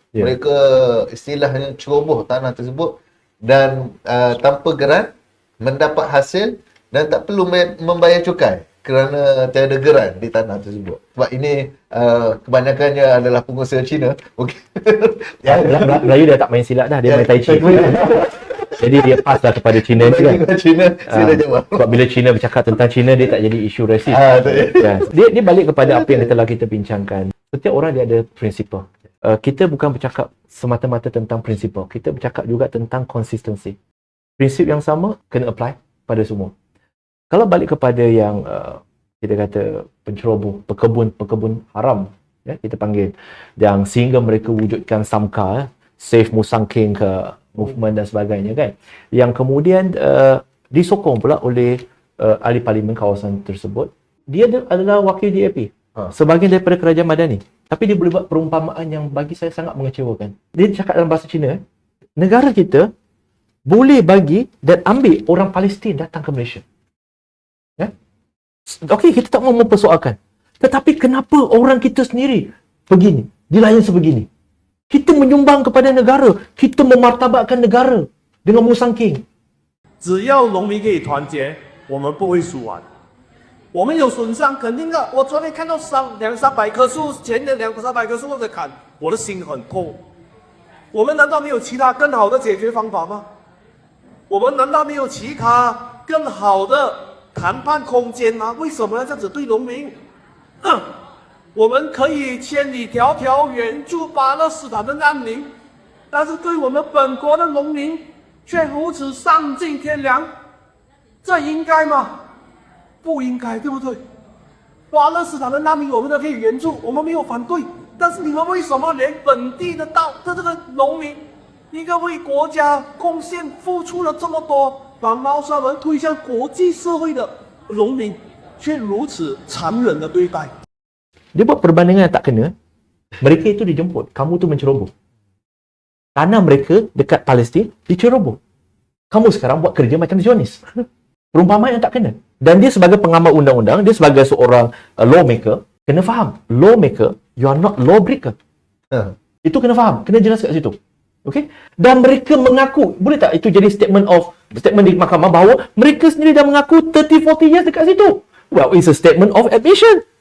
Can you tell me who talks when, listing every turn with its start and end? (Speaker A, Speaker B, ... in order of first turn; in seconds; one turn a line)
Speaker A: 0.2-5.1
Speaker A: 5.6-16.1
Speaker B: 15.4-18.2
Speaker A: 17.0-19.2
Speaker B: 18.7-20.4
Speaker A: 19.9-22.0
Speaker B: 21.1-33.8
Speaker A: 24.1-25.1
Speaker A: 25.8-26.3
Speaker B: 34.4-36.5
Speaker B: 37.3-61.6
Speaker B: 62.2-62.9
Speaker B: 63.7-66.6
Speaker B: 68.7-74.3
Speaker B: 74.9-79.2
Speaker C: 80.0-82.8
Speaker C: 83.7-90.0
Speaker C: 90.9-93.2
Speaker C: 94.3-99.9
Speaker C: 101.5-105.5
Speaker C: 106.1-110.3
Speaker C: 111.2-112.2
Speaker C: 113.0-114.0
Speaker C: 114.9-121.2
Speaker C: 121.7-130.5
Speaker B: 131.3-132.5
Speaker B: 133.2-134.9
Speaker B: 136.2-138.4
Speaker B: 139.1-140.6
Speaker B: 141.3-148.3
Speaker B: 149.4-160.0